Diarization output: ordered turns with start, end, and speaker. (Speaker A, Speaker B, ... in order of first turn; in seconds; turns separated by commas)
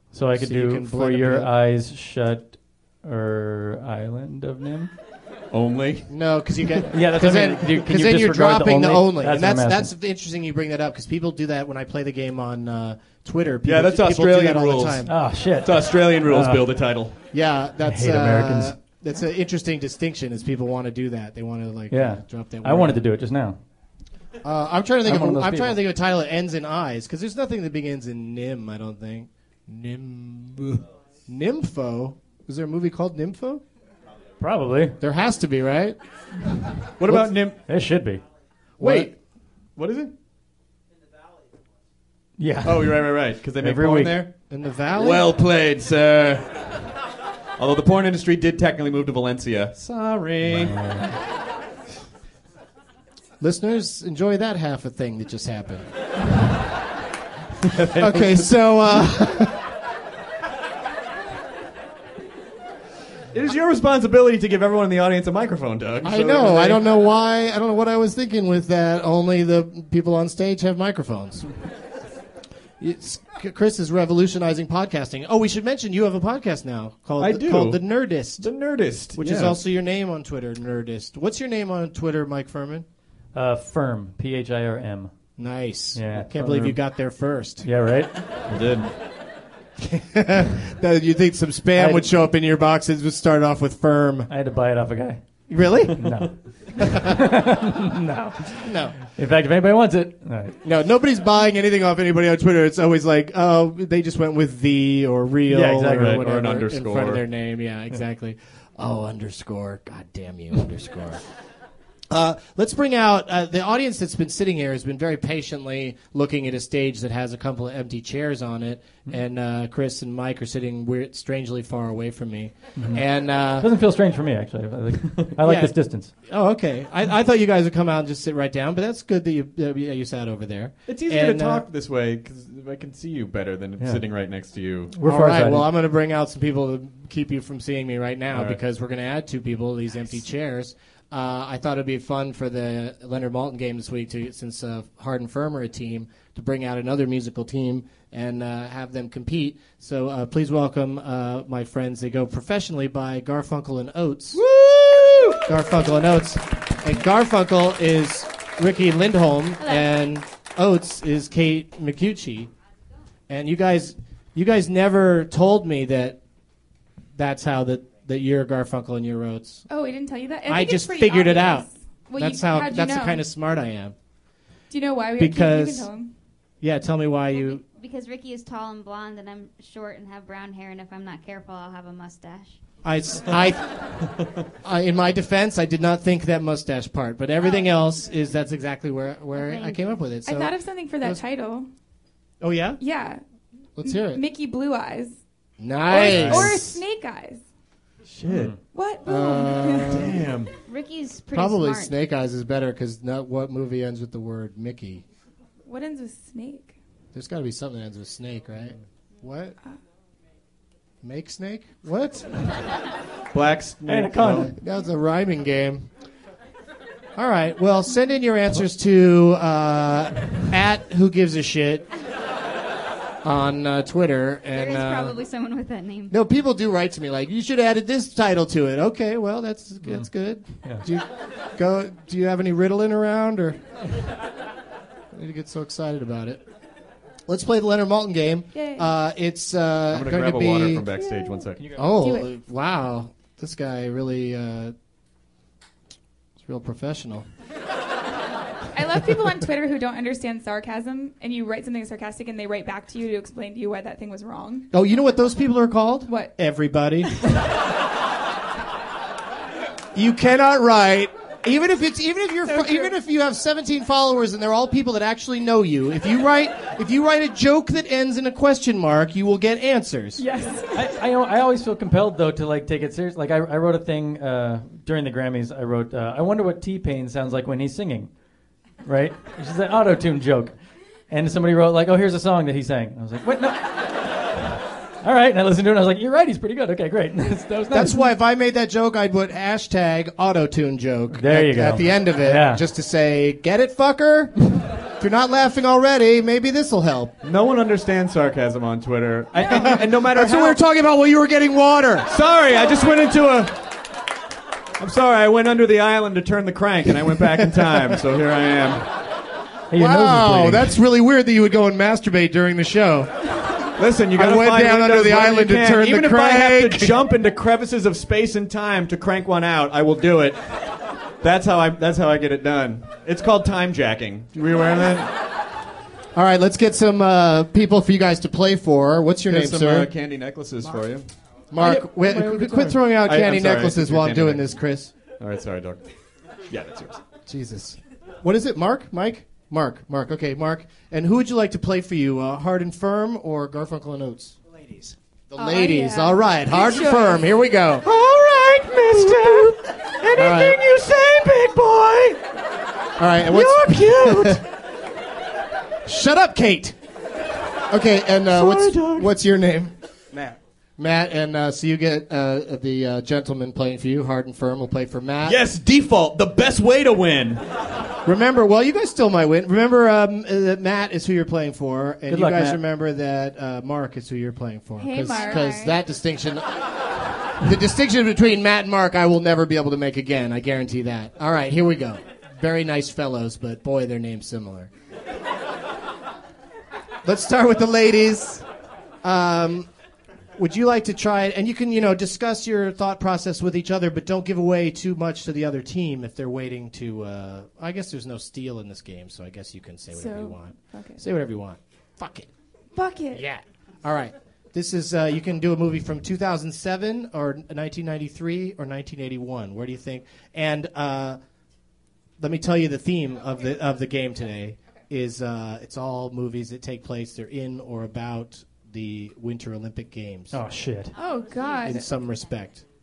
Speaker A: 0.1-4.9, Speaker B: 0.4-1.5, Speaker C: 5.5-6.0, Speaker B: 6.1-15.1, Speaker A: 6.9-9.9, Speaker C: 13.6-15.1, Speaker A: 15.0-16.7, Speaker C: 15.6-17.2, Speaker B: 17.3-23.0, Speaker A: 17.9-18.7, Speaker A: 21.9-23.6, Speaker B: 24.4-33.6, Speaker A: 25.1-25.8, Speaker A: 34.4-35.0, Speaker B: 35.0-36.0, Speaker C: 37.0-37.6, Speaker A: 37.6-38.2, Speaker C: 38.8-39.1, Speaker B: 38.8-39.1, Speaker C: 39.8-40.1, Speaker A: 42.4-44.2, Speaker C: 42.6-44.3, Speaker B: 44.5-45.3, Speaker C: 44.9-46.8, Speaker C: 47.6-50.8, Speaker A: 50.5-51.1, Speaker B: 53.4-55.9, Speaker C: 57.6-58.5, Speaker B: 58.0-59.7, Speaker C: 63.3-66.8, Speaker B: 66.0-71.5, Speaker B: 72.8-78.5, Speaker C: 77.2-77.8, Speaker C: 78.4-79.6, Speaker B: 79.2-82.8, Speaker A: 83.3-85.1, Speaker B: 85.4-87.7, Speaker A: 85.9-86.3, Speaker C: 86.3-86.8, Speaker A: 87.6-88.2, Speaker C: 88.5-88.9, Speaker B: 89.8-94.3, Speaker A: 91.8-92.1, Speaker A: 94.3-95.2, Speaker B: 95.5-96.0, Speaker A: 96.0-100.6, Speaker B: 98.6-99.0, Speaker B: 100.6-111.2, Speaker A: 105.5-106.2, Speaker C: 105.9-107.2, Speaker B: 112.1-123.7, Speaker A: 122.8-123.0, Speaker A: 123.6-126.1, Speaker B: 125.4-125.7, Speaker B: 126.2-131.6, Speaker C: 130.9-134.9, Speaker A: 134.9-135.7, Speaker B: 135.0-154.4, Speaker C: 138.3-138.6, Speaker C: 154.3-155.5, Speaker B: 155.4-162.5, Speaker B: 163.3-166.2, Speaker B: 167.2-169.7, Speaker D: 169.7-173.2, Speaker B: 170.5-171.7, Speaker B: 172.2-173.9, Speaker D: 174.7-176.1, Speaker B: 175.2-175.9, Speaker B: 176.6-177.6, Speaker E: 177.3-182.6, Speaker B: 182.8-184.1, Speaker B: 184.6-191.2, Speaker E: 189.3-189.8, Speaker D: 190.2-191.7, Speaker B: 192.4-192.8, Speaker D: 192.8-193.2, Speaker B: 193.8-194.2, Speaker D: 193.8-195.2, Speaker B: 195.6-196.8, Speaker D: 195.9-197.4, Speaker C: 196.0-196.5, Speaker C: 198.1-198.6, Speaker A: 198.3-198.6, Speaker D: 198.6-200.0, Speaker B: 199.0-200.2, Speaker C: 199.8-200.5, Speaker E: 200.7-201.9, Speaker B: 201.3-205.0, Speaker D: 205.6-206.7, Speaker B: 207.1-209.5, Speaker B: 211.0-212.6, Speaker C: 213.3-214.5, Speaker A: 213.8-214.5, Speaker B: 214.3-215.9, Speaker B: 217.2-221.9, Speaker B: 223.2-225.2, Speaker E: 224.5-226.1, Speaker B: 226.1-233.6, Speaker B: 235.1-236.4, Speaker B: 237.3-240.8, Speaker D: 238.5-238.9, Speaker C: 239.9-241.7, Speaker B: 241.7-244.7, Speaker D: 241.9-242.3, Speaker B: 246.4-247.3, Speaker D: 248.7-254.7, Speaker B: 254.7-257.2, Speaker D: 256.1-256.3, Speaker B: 259.9-270.2, Speaker D: 262.5-262.9, Speaker D: 270.2-270.9, Speaker A: 270.7-278.1, Speaker A: 278.8-280.5, Speaker A: 281.1-284.2, Speaker A: 285.0-288.0, Speaker B: 287.7-297.1, Speaker A: 291.1-292.6, Speaker C: 297.2-300.6, Speaker B: 299.4-302.1, Speaker C: 302.1-303.6, Speaker C: 304.8-308.9, Speaker A: 309.7-310.8, Speaker B: 309.7-313.2, Speaker C: 313.8-320.4, Speaker B: 314.1-317.0, Speaker C: 321.2-325.1, Speaker B: 326.1-329.9, Speaker C: 329.3-331.1, Speaker B: 331.5-334.9, Speaker A: 331.6-332.8, Speaker C: 332.9-334.6, Speaker C: 335.1-335.8, Speaker C: 336.5-337.0, Speaker B: 337.2-347.9, Speaker D: 345.4-347.2, Speaker C: 347.8-352.2, Speaker B: 350.1-350.6, Speaker B: 353.0-354.4, Speaker C: 353.2-354.4, Speaker B: 355.8-356.7, Speaker B: 357.7-359.7, Speaker C: 358.3-359.1, Speaker B: 360.8-365.4, Speaker C: 365.2-367.4, Speaker B: 368.0-376.5, Speaker A: 372.1-372.6, Speaker D: 374.8-375.7, Speaker E: 375.2-375.4, Speaker B: 377.4-384.7, Speaker B: 387.0-388.4, Speaker B: 389.0-389.7, Speaker B: 390.4-402.3, Speaker D: 399.9-401.0, Speaker D: 402.7-403.2, Speaker B: 403.1-411.2, Speaker B: 412.2-420.4, Speaker A: 420.3-420.9, Speaker D: 420.9-421.9, Speaker B: 421.6-422.6